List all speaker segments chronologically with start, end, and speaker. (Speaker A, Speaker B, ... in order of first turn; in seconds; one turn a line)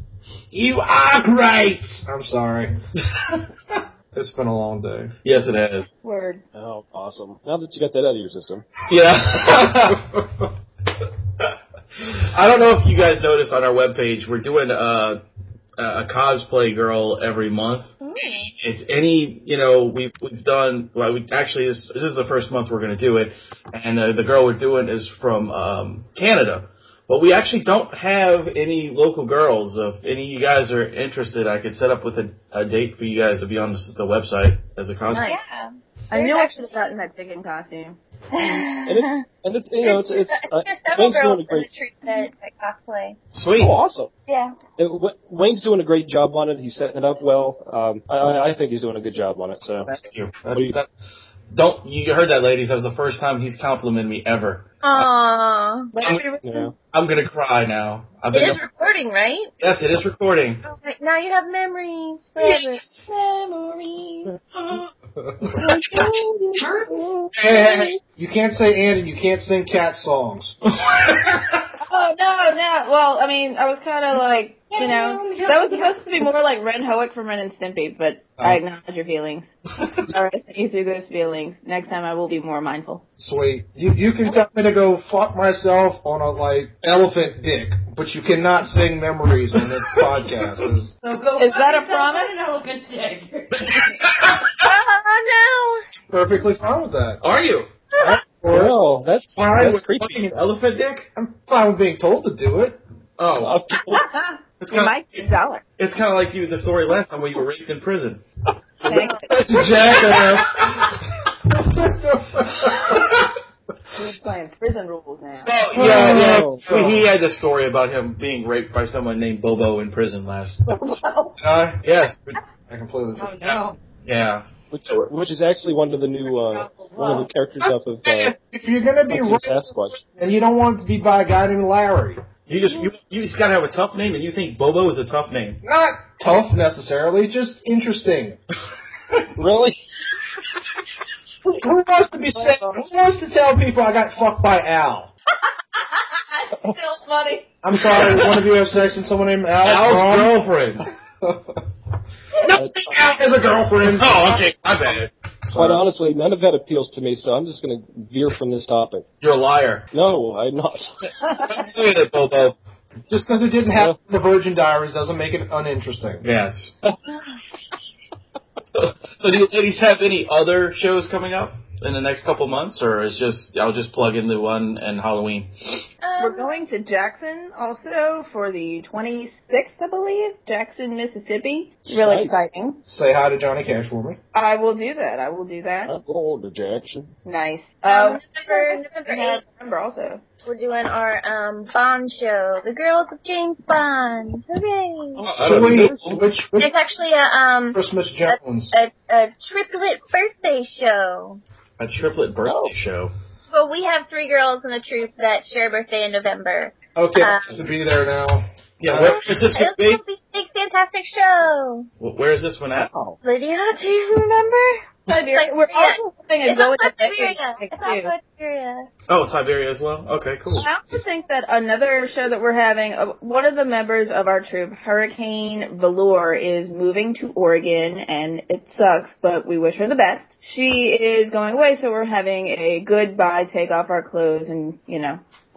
Speaker A: 0.5-2.8
Speaker B: 3.1-3.4
Speaker A: 4.1-5.2
Speaker B: 5.2-6.0
Speaker C: 6.0-6.4
Speaker D: 6.5-8.7
Speaker B: 8.8-10.1
Speaker A: 9.3-10.4
Speaker B: 12.0-15.2
Speaker B: 15.8-17.9
Speaker C: 18.0-18.5
Speaker B: 18.6-35.3
Speaker C: 35.1-35.4
Speaker E: 35.1-36.9
Speaker C: 36.1-38.5
Speaker E: 38.3-39.2
Speaker D: 38.9-41.7
Speaker E: 39.8-43.2
Speaker B: 43.3-43.8
Speaker D: 43.6-44.1
Speaker E: 44.3-44.5
Speaker D: 44.8-49.9
Speaker B: 49.9-50.9
Speaker B: 51.5-55.1
Speaker E: 54.8-55.9
Speaker C: 55.9-56.7
Speaker D: 56.4-56.8
Speaker B: 56.9-58.6
Speaker E: 58.3-59.5
Speaker B: 59.6-60.6
Speaker E: 60.6-62.8
Speaker C: 62.4-64.3
Speaker B: 64.5-64.9
Speaker C: 65.6-67.9
Speaker F: 66.6-67.1
Speaker A: 67.3-70.7
Speaker B: 71.0-71.6
Speaker C: 71.8-79.5
Speaker F: 74.7-76.2
Speaker C: 80.1-83.0
Speaker A: 83.2-90.9
Speaker F: 91.0-93.9
Speaker C: 91.4-92.3
Speaker B: 93.5-94.6
Speaker E: 94.5-95.8
Speaker A: 96.1-97.2
Speaker B: 97.2-97.7
Speaker A: 98.0-98.8
Speaker D: 98.5-100.3
Speaker B: 99.4-101.1
Speaker A: 101.2-102.8
Speaker B: 103.2-103.6
Speaker D: 103.4-104.1
Speaker C: 103.9-105.6
Speaker B: 104.6-108.2
Speaker C: 108.8-109.3
Speaker A: 109.2-110.8
Speaker B: 109.8-110.9
Speaker A: 111.5-113.2
Speaker C: 114.0-115.5
Speaker B: 115.5-121.0
Speaker A: 115.7-117.1
Speaker D: 115.8-116.7
Speaker C: 120.7-121.4
Speaker A: 121.4-121.8
Speaker B: 121.8-122.4
Speaker A: 122.7-123.4
Speaker F: 123.2-123.8
Speaker B: 123.4-125.1
Speaker D: 124.7-128.3
Speaker F: 126.3-127.3
Speaker A: 128.1-132.2
Speaker D: 129.1-130.0
Speaker B: 132.5-135.6
Speaker A: 135.6-138.4
Speaker D: 139.4-139.8
Speaker A: 141.4-145.1
Speaker C: 142.4-142.8
Speaker C: 145.8-147.5
Speaker A: 147.6-150.4
Speaker B: 147.9-148.3
Speaker B: 149.6-150.9
Speaker A: 151.2-151.6
Speaker A: 152.5-154.5
Speaker D: 152.6-153.0
Speaker B: 153.8-155.1
Speaker A: 155.5-155.8
Speaker D: 155.5-159.1
Speaker B: 159.2-159.9
Speaker D: 159.9-161.1
Speaker B: 161.2-162.6
Speaker A: 163.1-166.2
Speaker B: 166.2-166.8
Speaker B: 168.7-175.5
Speaker E: 176.0-176.5
Speaker C: 176.2-182.8
Speaker D: 181.9-182.5
Speaker A: 182.9-184.2
Speaker C: 184.3-185.9
Speaker D: 185.9-187.1
Speaker C: 187.2-190.2
Speaker E: 187.9-189.4
Speaker E: 190.4-195.3
Speaker D: 195.2-196.2
Speaker B: 195.2-196.2
Speaker A: 195.3-196.7
Speaker E: 196.6-201.4
Speaker A: 197.7-198.8
Speaker B: 201.8-203.1
Speaker D: 202.4-202.8
Speaker E: 203.5-207.7
Speaker A: 207.0-209.2
Speaker B: 208.8-210.0
Speaker E: 209.5-211.9
Speaker B: 212.0-212.9
Speaker D: 212.8-213.2
Speaker E: 213.2-218.9
Speaker C: 215.1-218.1
Speaker B: 219.1-220.7
Speaker C: 220.6-235.2